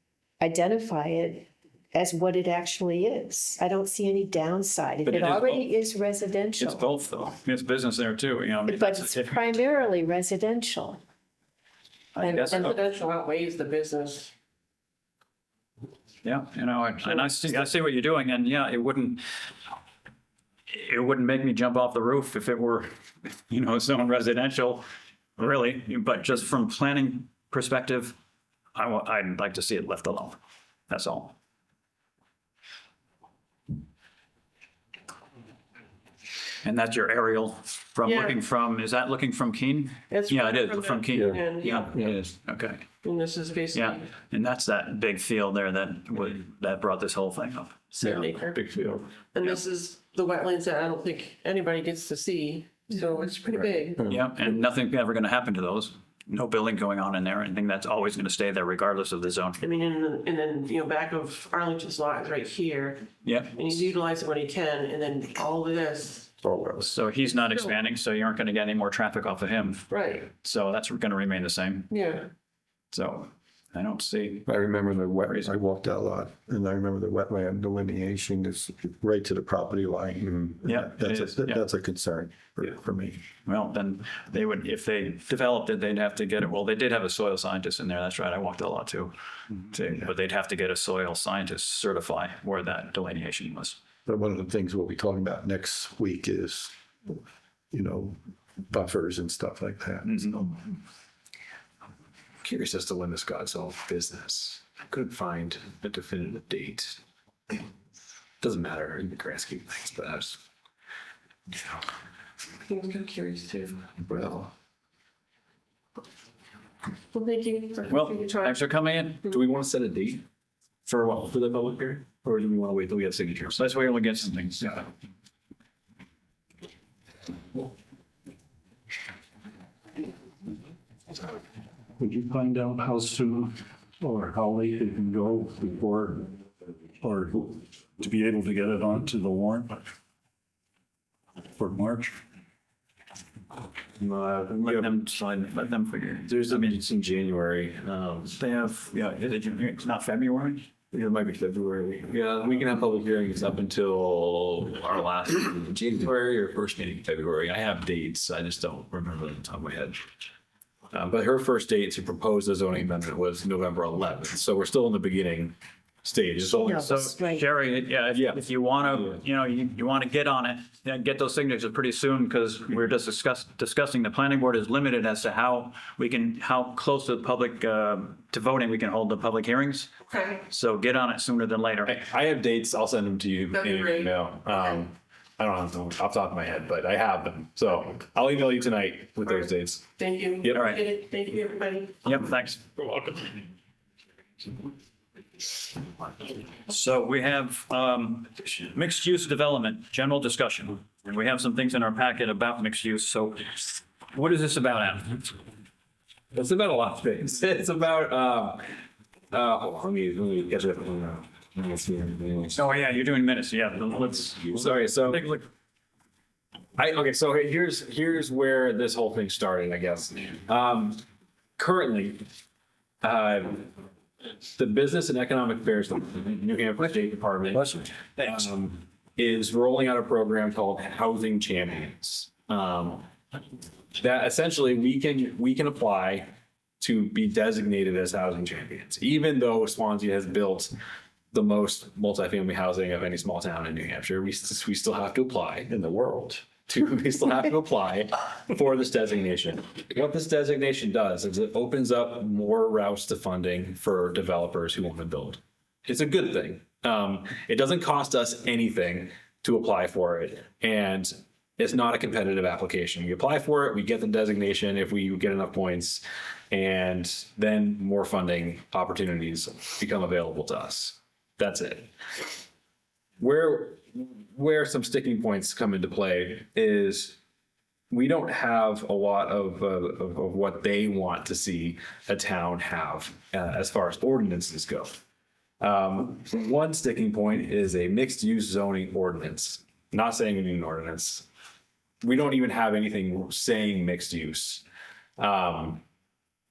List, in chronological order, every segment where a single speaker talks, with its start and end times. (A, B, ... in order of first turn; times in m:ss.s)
0:00.4-0:06.9 A
0:05.0-0:05.7 B
0:06.6-0:09.4 B
0:08.7-0:11.0 A
0:12.2-0:12.8 B
0:12.2-0:12.7 A
0:12.2-0:14.3 C
0:16.2-0:19.2 B
0:17.1-0:17.5 C
0:20.7-0:24.8 B
0:25.4-0:28.2 B
0:28.7-0:30.4 B
0:30.9-0:31.3 B
0:36.6-0:42.8 B
0:38.0-0:38.4 C
0:40.1-0:41.9 C
0:41.1-0:42.2 D
0:43.0-0:44.0 C
0:43.7-0:48.0 B
0:47.9-0:48.7 C
0:48.1-0:49.1 D
0:49.3-0:54.1 C
0:53.6-0:54.2 D
0:54.1-0:59.6 B
0:59.6-1:06.3 C
1:03.2-1:03.8 B
1:06.4-1:07.0 D
1:06.8-1:12.0 B
1:07.3-1:07.7 C
1:09.9-1:10.3 C
1:11.9-1:12.3 C
1:12.9-1:14.5 B
1:14.4-1:23.2 D
1:20.6-1:21.6 B
1:23.4-1:29.1 B
1:29.7-1:33.8 B
1:34.0-1:36.7 D
1:37.7-1:40.5 D
1:40.1-1:40.3 B
1:42.4-1:47.0 E
1:48.4-1:50.4 E
1:51.5-1:51.8 E
1:52.6-1:54.0 C
1:54.0-1:54.5 D
1:57.1-1:58.6 C
1:57.9-1:59.2 B
1:59.2-2:00.2 E
2:00.8-2:03.6 E
2:03.5-2:04.8 B
2:12.0-2:16.3 F
2:17.0-2:19.8 F
2:21.6-2:22.2 F
2:24.0-2:25.1 E
2:24.6-2:26.8 B
2:26.3-2:28.4 E
2:28.3-2:30.6 B
2:30.9-2:40.0 E
2:40.9-2:47.2 E
2:46.4-2:47.4 A
2:46.7-2:59.9 B
2:48.1-2:48.4 E
3:00.1-3:00.4 C
3:00.5-3:01.9 B
3:01.8-3:09.9 E
3:03.5-3:04.1 C
3:10.0-3:12.0 C
3:10.4-3:10.7 E
3:10.5-3:10.8 B
3:12.0-3:13.2 B
3:16.7-3:25.4 B
3:26.3-3:28.6 E
3:29.3-3:32.7 E
3:32.6-3:35.4 B
3:34.5-3:35.3 E
3:36.8-3:41.0 E
3:41.6-3:42.2 E
3:43.0-3:43.7 E
3:44.5-3:53.0 E
3:47.6-3:48.4 F
3:54.0-3:56.3 E
3:56.8-4:00.7 E
4:01.3-4:05.7 E
4:05.7-4:06.4 D
4:06.4-4:32.3 E
4:33.2-4:37.2 E
4:37.9-4:44.9 E
4:45.6-4:51.3 E
4:52.0-4:54.6 E
4:55.2-4:55.8 E